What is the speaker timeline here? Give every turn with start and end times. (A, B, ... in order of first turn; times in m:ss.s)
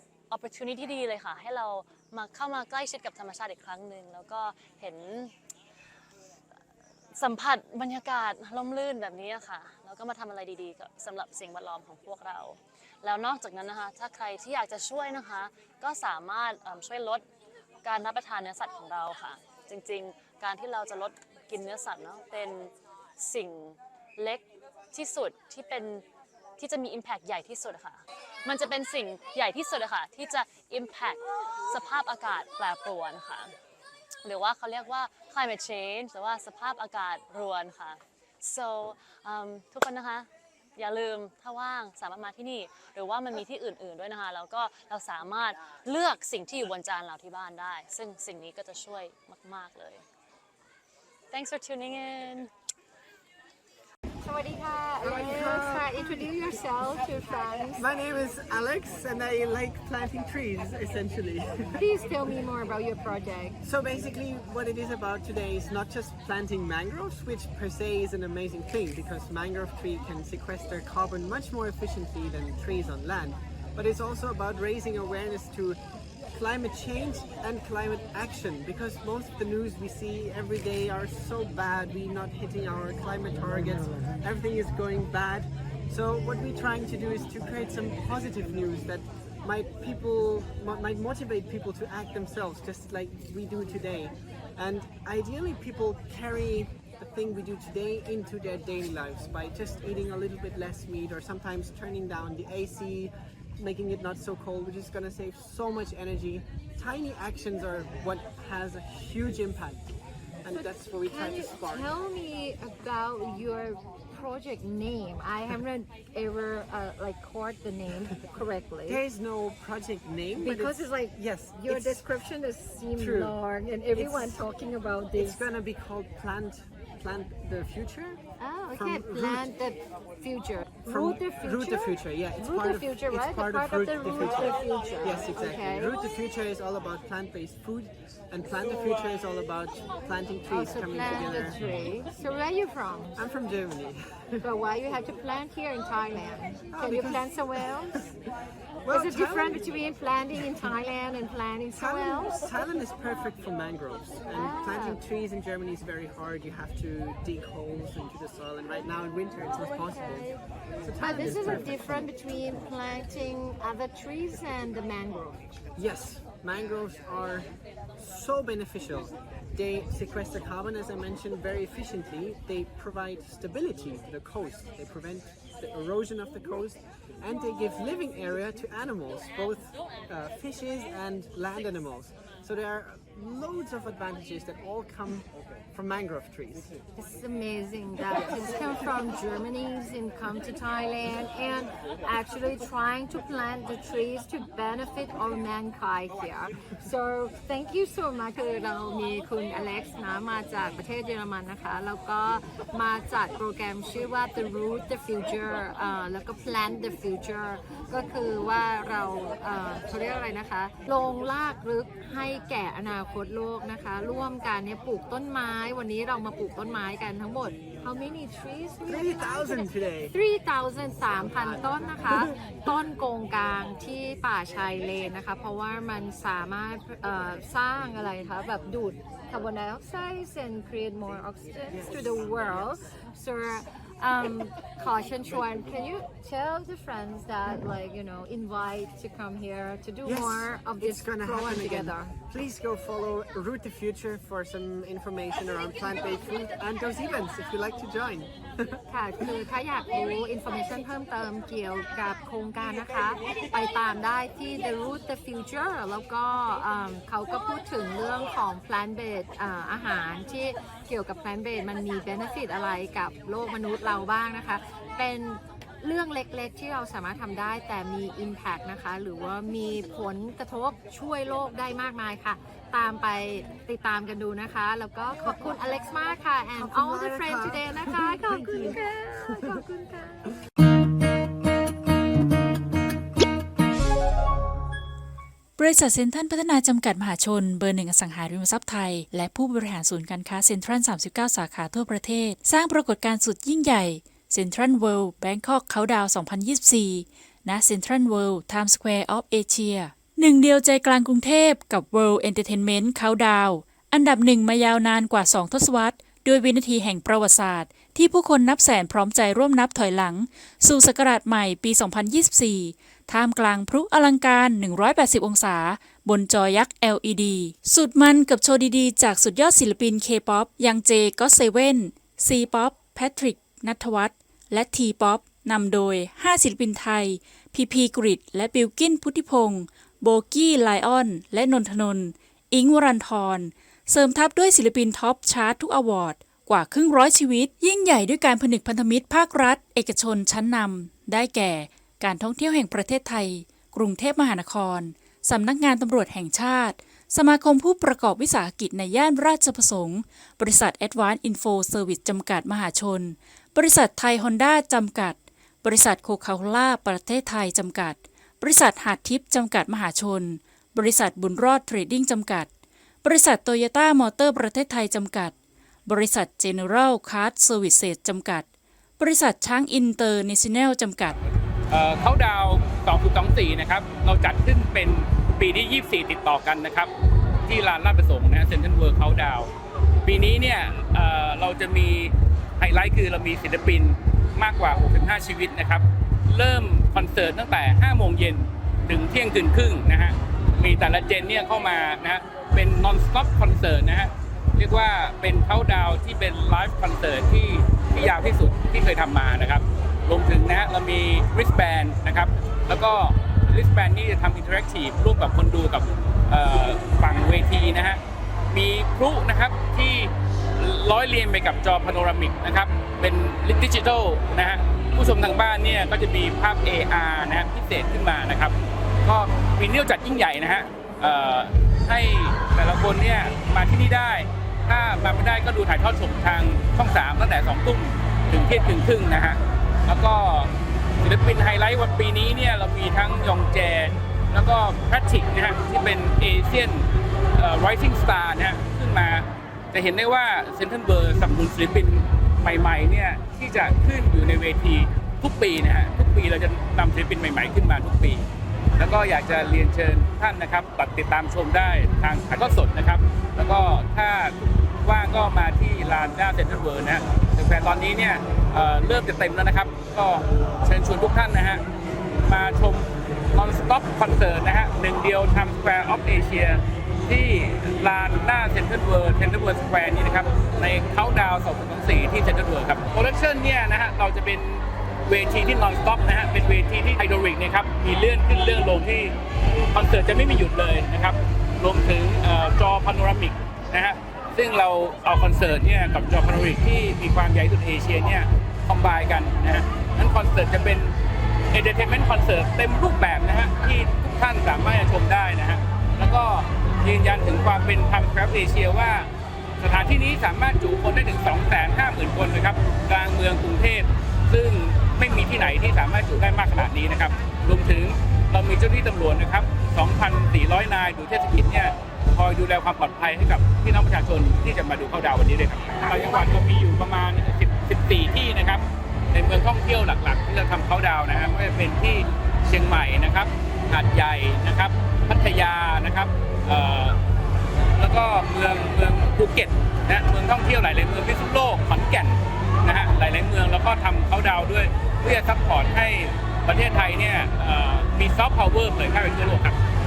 0:00.3-0:05.3 A
0:07.1-0:17.2 A
0:17.8-0:26.0 A
0:26.6-0:33.5 A
0:34.2-0:50.0 A
0:51.3-0:52.5 A
0:54.2-0:57.8 B
0:55.0-0:56.3 C
0:57.8-1:01.9 C
1:01.8-1:03.6 B
1:03.6-1:15.8 C
1:16.3-1:49.9 C
1:50.4-1:51.9 C
1:50.5-1:59.0 B
1:58.8-2:02.1 C
2:00.3-2:05.4 B
2:02.9-2:03.4 C
2:03.9-2:04.4 C
2:05.1-2:08.2 C
2:08.4-2:16.0 B
2:08.7-2:09.5 C
2:10.8-2:21.6 C
2:20.5-2:23.2 B
2:23.2-2:24.4 C
2:24.4-2:28.0 B
2:26.7-2:27.3 C
2:28.8-2:29.7 C
2:28.9-2:32.5 B
2:31.7-2:42.1 C
2:34.3-2:35.0 B
2:39.7-2:40.2 B
2:41.0-2:45.4 B
2:45.8-3:06.7 C
3:07.0-4:02.2 B
3:38.8-3:40.1 C
3:41.2-3:42.5 C
3:51.7-3:52.6 C
4:00.0-4:08.8 C
4:08.9-4:40.3 B
4:35.2-4:35.9 C
4:36.6-4:39.6 C
4:45.6-6:02.5 D
6:03.0-6:05.3 D
6:05.8-6:08.5 D
6:09.0-6:11.2 D
6:11.7-6:16.9 E
6:17.5-6:19.5 E
6:20.0-6:48.0 E
6:48.5-7:10.5 E
7:11.0-7:16.8 E
7:17.4-7:28.2 E
7:28.8-7:41.6 E
7:42.2-7:54.4 E
7:55.1-7:59.1 E
7:59.7-8:10.9 E
8:11.5-8:19.1 E
8:19.6-8:38.6 E
8:39.1-8:47.0 E
8:47.8-8:59.6 E